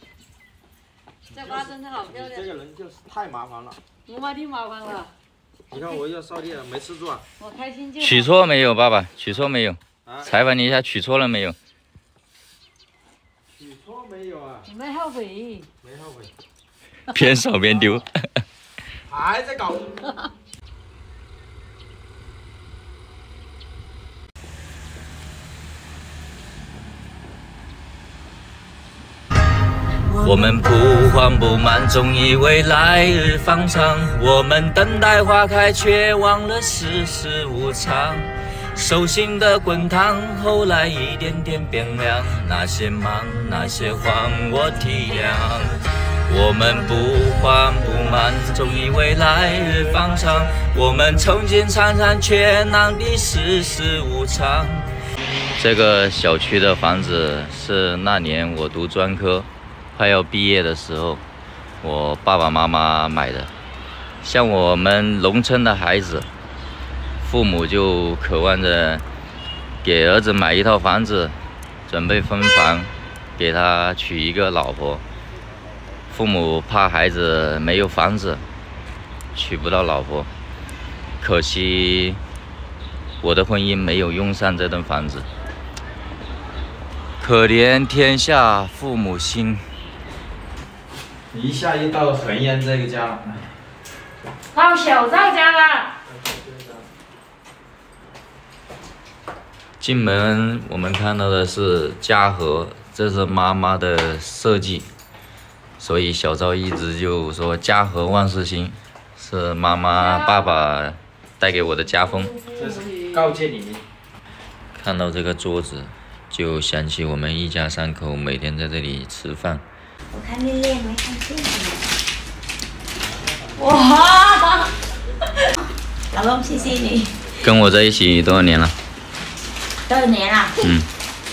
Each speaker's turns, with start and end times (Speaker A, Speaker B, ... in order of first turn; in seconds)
Speaker A: 1.3-2.5, 4.0-5.1, 7.4-8.3, 14.7-15.7, 94.5-95.9, 109.9-110.7, 112.1-113.3
Speaker B: 1.3-3.8, 5.7-7.2, 10.0-10.3, 13.5-14.7, 15.8-16.3, 19.1-20.0, 91.3-93.5, 96.1-96.8, 112.5-113.8
Speaker C: 8.0-11.6, 17.1-18.1, 30.1-54.8, 55.6-61.2, 61.8-63.5, 64.2-66.3, 67.2-69.0, 69.8-75.0, 76.1-78.4, 79.3-80.3, 81.2-82.2, 83.2-85.3, 87.2-89.6, 99.8-104.9, 105.8-112.3, 114.7-119.6, 127.4-128.7, 130.6-130.9
Speaker D: 120.1-121.8, 123.6-124.7, 126.1-127.1, 129.9-130.5